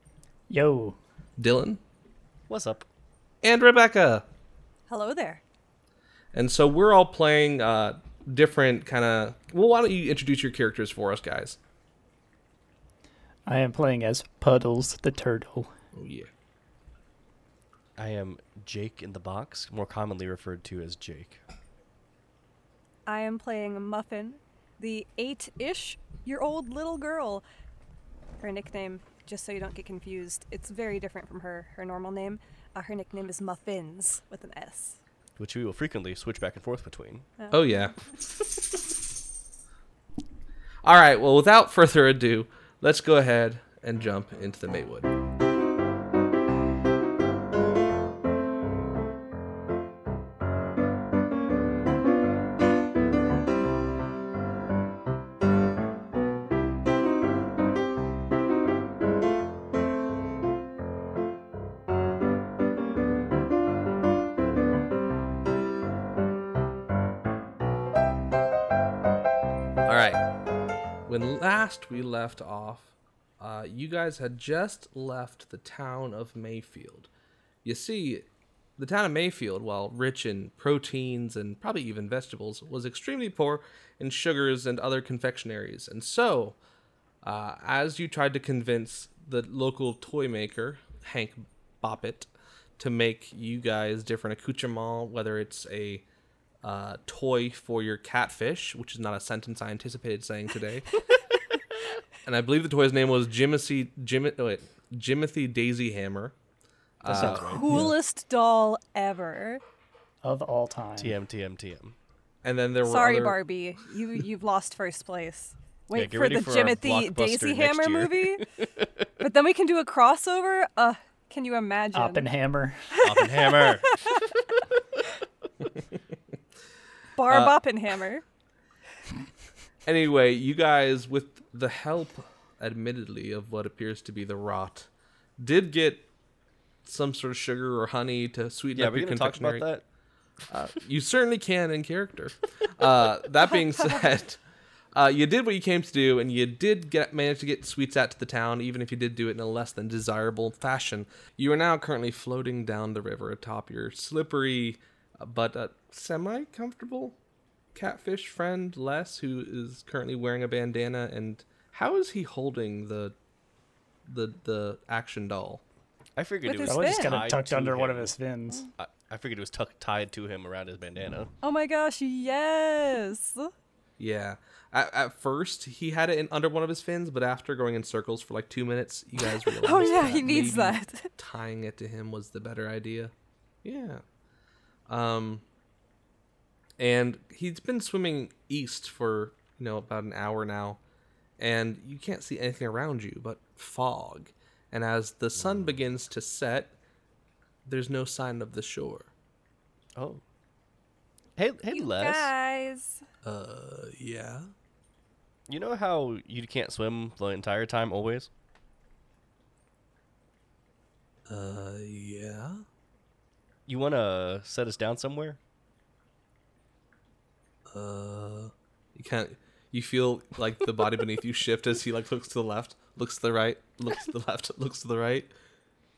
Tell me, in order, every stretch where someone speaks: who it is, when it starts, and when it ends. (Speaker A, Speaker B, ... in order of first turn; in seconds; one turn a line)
Speaker A: 0.5-1.0
Speaker B: 1.4-1.8
Speaker C: 2.5-2.9
Speaker B: 3.4-4.2
Speaker D: 4.9-5.4
Speaker B: 6.3-11.6
Speaker A: 13.4-15.7
Speaker B: 15.9-16.3
Speaker C: 18.0-21.4
Speaker D: 23.1-27.4
Speaker D: 28.4-35.0
Speaker C: 35.4-37.2
Speaker B: 37.5-37.9
Speaker B: 40.8-45.1
Speaker B: 69.8-70.2
Speaker B: 71.1-77.1
Speaker B: 77.6-78.2
Speaker B: 78.8-86.6
Speaker B: 87.2-96.0
Speaker B: 96.6-100.9
Speaker B: 102.2-106.3
Speaker B: 107.0-107.6
Speaker C: 107.0-107.9
Speaker D: 107.3-109.6
Speaker A: 107.5-107.9
Speaker A: 110.2-111.2
Speaker C: 111.0-111.9
Speaker B: 112.4-113.4
Speaker D: 112.8-118.4
Speaker C: 115.9-119.1
Speaker D: 119.2-122.2
Speaker A: 121.9-122.8
Speaker D: 122.9-124.4
Speaker C: 123.0-124.0
Speaker D: 127.2-128.2
Speaker B: 127.3-127.5
Speaker B: 129.8-136.1
Speaker B: 136.8-139.7
Speaker C: 138.7-139.8
Speaker B: 140.5-144.4
Speaker B: 144.9-157.2
Speaker B: 157.7-163.1
Speaker B: 164.1-165.6
Speaker C: 166.2-168.1
Speaker D: 166.4-167.2
Speaker A: 166.6-168.7
Speaker C: 168.8-171.3
Speaker D: 171.4-173.5
Speaker B: 174.0-183.1
Speaker D: 179.2-181.1
Speaker B: 183.6-184.0
Speaker B: 184.9-185.4
Speaker B: 186.8-190.8
Speaker B: 191.4-196.7
Speaker C: 195.4-195.7
Speaker B: 197.7-199.1
Speaker C: 199.9-200.2
Speaker C: 201.4-202.3
Speaker D: 201.7-203.0
Speaker B: 203.2-204.5
Speaker C: 205.5-208.3
Speaker B: 211.3-212.6
Speaker C: 213.7-215.4
Speaker B: 217.7-225.3